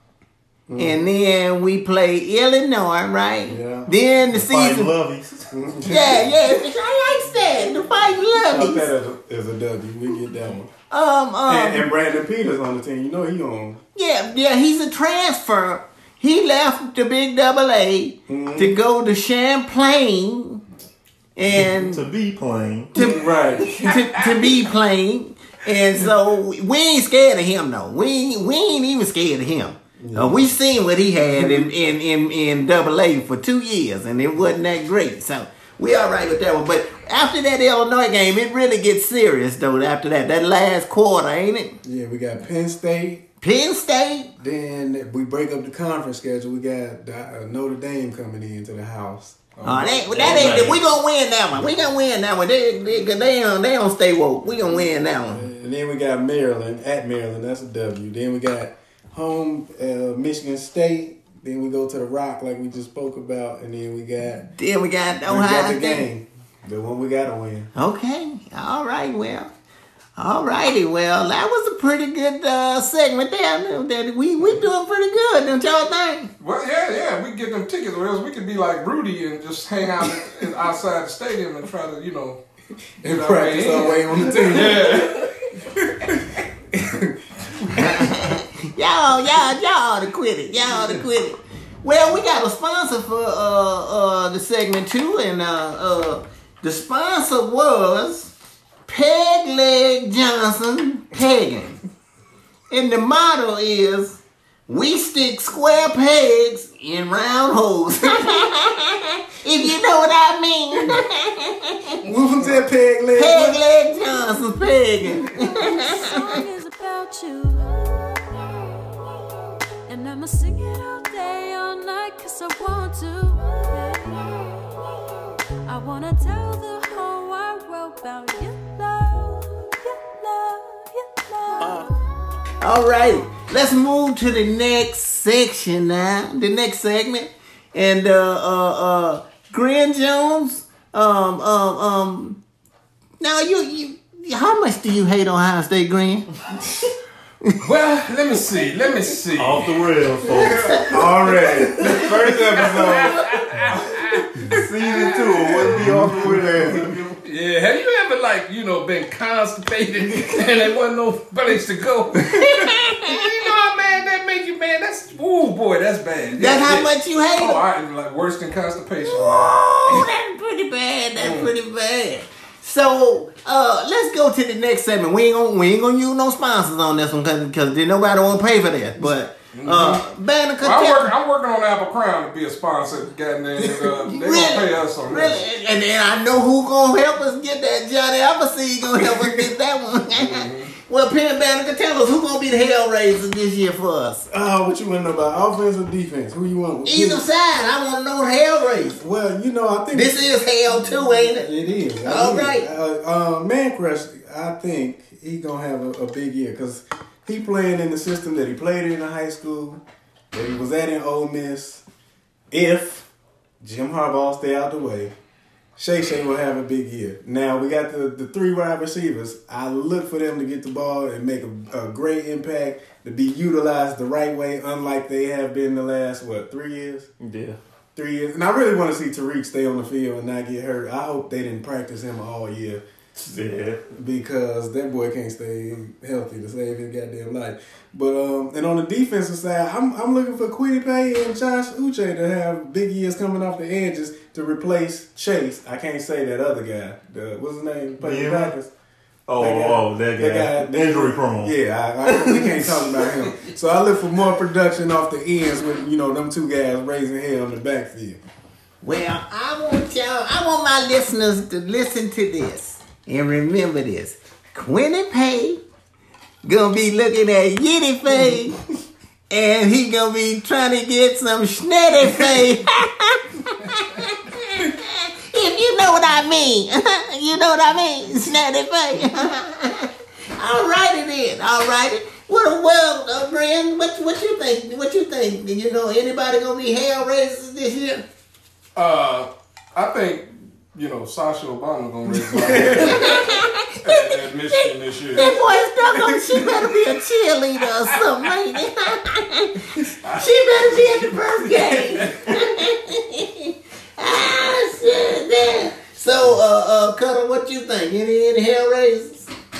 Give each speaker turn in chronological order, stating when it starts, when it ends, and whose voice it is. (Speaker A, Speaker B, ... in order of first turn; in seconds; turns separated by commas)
Speaker A: 0.7-1.1, Speaker B: 0.8-4.9, Speaker A: 3.5-3.9, Speaker C: 4.3-5.7, Speaker A: 5.5-6.3, Speaker B: 5.9-8.9, Speaker A: 8.5-10.7, Speaker B: 10.9-11.9, Speaker A: 11.5-13.8, Speaker B: 13.9-20.6, Speaker A: 18.3-18.8, Speaker B: 21.4-22.1, Speaker C: 21.6-22.9, Speaker A: 22.9-23.9, Speaker B: 23.0-41.8, Speaker D: 23.0-24.6, Speaker A: 30.0-30.5, Speaker A: 31.3-31.7, Speaker A: 41.8-43.2, Speaker B: 43.4-44.3, Speaker A: 44.4-50.8, Speaker B: 49.6-55.5, Speaker D: 50.1-50.8, Speaker A: 54.8-64.5, Speaker B: 64.5-66.1, Speaker A: 65.2-67.7, Speaker B: 67.8-69.5, Speaker B: 70.2-76.3, Speaker D: 76.4-82.4, Speaker A: 83.0-88.3, Speaker D: 83.0-85.3, Speaker B: 87.7-98.3, Speaker B: 98.9-101.8, Speaker B: 102.7-112.0, Speaker A: 112.0-113.6, Speaker B: 113.2-116.4, Speaker E: 115.3-132.1, Speaker B: 132.6-142.4, Speaker B: 143.2-146.3, Speaker D: 147.6-149.8, Speaker C: 149.4-152.9, Speaker B: 150.5-150.8, Speaker A: 150.7-154.7, Speaker D: 151.9-154.3, Speaker C: 154.4-157.1, Speaker D: 154.8-155.8, Speaker A: 155.4-157.2, Speaker D: 157.2-170.1, Speaker B: 162.3-163.3, Speaker B: 166.4-167.6, Speaker B: 169.1-181.1, Speaker D: 171.2-171.5, Speaker D: 179.5-180.1, Speaker D: 180.6-185.4, Speaker B: 183.6-194.3, Speaker A: 189.0-189.4, Speaker D: 190.1-190.7, Speaker A: 194.3-197.2, Speaker B: 196.8-199.0, Speaker A: 199.0-200.2, Speaker B: 199.9-201.5, Speaker A: 201.2-211.8, Speaker B: 202.1-202.7, Speaker A: 212.5-213.1, Speaker A: 213.6-215.1, Speaker A: 215.8-227.1, Speaker C: 227.2-227.6, Speaker A: 227.9-232.8, Speaker C: 233.2-233.8, Speaker A: 233.9-248.7, Speaker C: 248.0-248.5, Speaker C: 249.3-251.5, Speaker A: 249.4-258.2, Speaker C: 252.1-253.1, Speaker B: 258.8-265.6, Speaker B: 266.4-268.6, Speaker B: 269.3-288.0, Speaker D: 288.8-295.4, Speaker A: 292.1-293.1, Speaker B: 292.7-309.3, Speaker A: 295.8-296.5, Speaker D: 297.8-298.2, Speaker D: 300.0-302.4